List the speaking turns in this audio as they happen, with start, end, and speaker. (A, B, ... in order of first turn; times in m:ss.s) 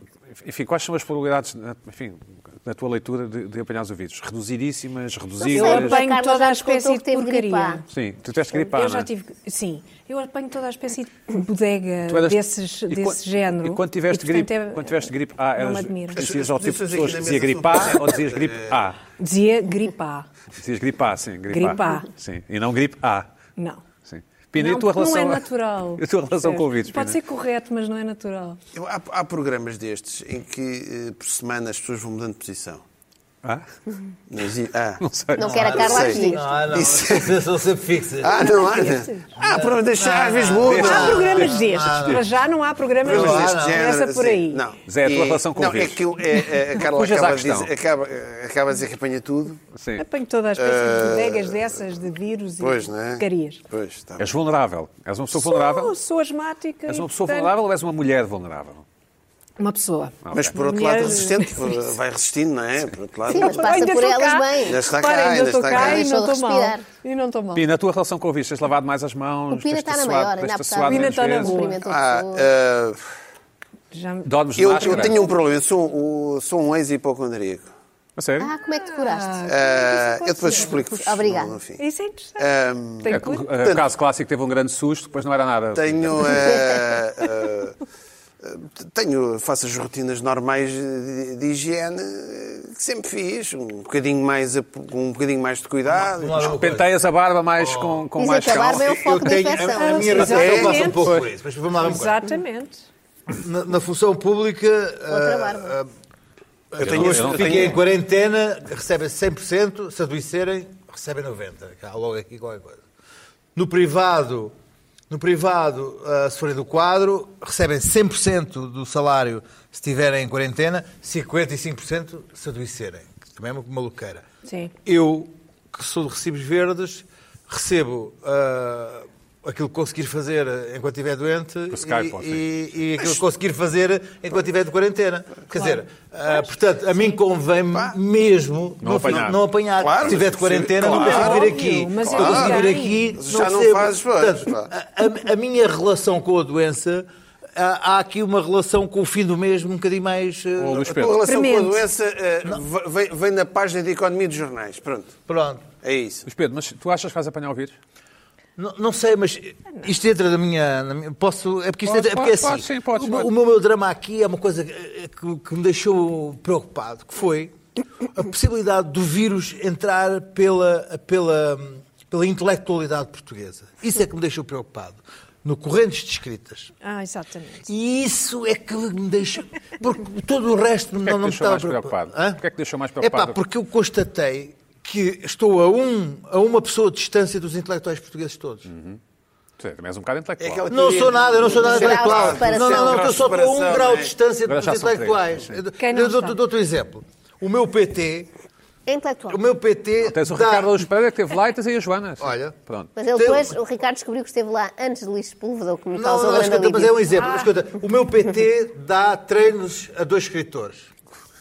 0:00.3-0:06.0 A
0:05.4-0:07.8 B
0:05.5-0:07.8 C
0:07.9-0:09.1 A
0:08.5-0:16.2 C
0:12.1-0:19.0 A
0:16.2-0:18.7 D
0:19.2-0:20.3 C
0:20.6-0:23.3 A
0:21.5-0:22.1 C
0:23.6-0:23.8 C
0:24.1-0:25.4 A
0:24.6-0:28.6 C
0:26.0-0:27.2 A
0:28.8-0:32.8 D
0:34.3-0:35.0 D
0:35.0-0:35.7 A
0:35.4-0:36.4 B
0:35.4-0:38.6 E
0:35.7-0:37.4 D
0:36.1-0:36.4 C
0:38.2-0:41.5 D
0:38.4-0:39.2 C
0:39.4-0:42.3 E
0:40.6-0:42.2 A
0:40.8-0:44.6 C
0:43.0-0:43.9 E
0:43.0-0:49.6 D
0:44.9-0:46.1 A
0:46.8-0:47.7 A
0:49.7-0:50.0 A
0:50.0-0:53.6 C
0:50.6-0:51.8 D
0:52.6-0:54.3 D
0:54.2-0:55.9 A
0:55.4-0:57.5 C
0:56.9-0:58.8 A
0:59.6-1:01.8 C
1:00.2-1:00.5 A
1:00.3-1:04.0 D
1:03.3-1:04.8 B
1:03.3-1:07.7 C
1:04.7-1:06.1 D
1:05.7-1:06.8 B
1:07.5-1:11.6 A
1:09.5-1:12.5 B
1:10.9-1:11.8 C
1:11.8-1:13.0 D
1:13.9-1:15.3 C
1:14.3-1:15.2 A
1:14.6-1:17.7 D
1:18.2-1:18.5 A
1:18.4-1:19.4 B
1:18.8-1:20.8 C
1:19.4-1:21.8 D
1:20.7-1:21.6 B
1:21.8-1:22.5 C
1:22.4-1:23.8 D
1:23.0-1:23.4 C
1:23.1-1:26.5 A
1:25.8-1:27.8 D
1:28.4-1:36.6 D
1:35.9-1:37.0 E
1:36.4-1:38.9 A
1:37.6-1:38.1 E
1:38.2-1:40.4 B
1:38.8-1:42.2 E
1:39.8-1:41.1 C
1:40.3-1:40.9 D
1:41.8-1:42.8 C
1:43.4-1:45.9 E
1:45.1-1:45.8 B
1:46.7-1:52.8 E
1:46.8-1:47.8 D
1:46.8-1:47.8 A
1:53.6-1:54.5 E
1:55.1-2:04.2 E
2:04.4-2:04.7 C
2:04.8-2:31.0 E
2:11.7-2:12.5 A
2:15.5-2:16.3 C
2:16.9-2:17.2 C
2:18.8-2:19.4 A
2:19.8-2:24.7 D
2:20.8-2:23.0 C
2:30.6-2:31.2 A
2:30.8-2:35.2 D
2:31.2-2:31.8 C
2:35.3-2:35.6 E
2:35.8-2:36.2 D
2:36.3-2:37.8 A
2:38.6-2:47.5 E
2:41.9-2:43.3 A
2:48.1-2:56.7 E
2:56.8-2:57.7 C
2:57.7-3:02.4 E
3:01.0-3:03.4 A
3:03.0-3:08.7 E
3:08.7-3:09.0 A
3:09.6-3:10.7 A
3:10.4-3:14.1 D
3:10.7-3:18.3 E
3:11.5-3:13.3 B
3:14.5-3:15.6 A
3:15.8-3:16.4 C
3:18.9-3:19.4 B
3:19.3-3:20.9 E
3:20.0-3:22.9 A
3:22.2-3:22.6 E
3:23.0-3:27.0 B
3:23.1-3:23.6 E
3:25.9-3:30.9 E
3:27.2-3:27.5 C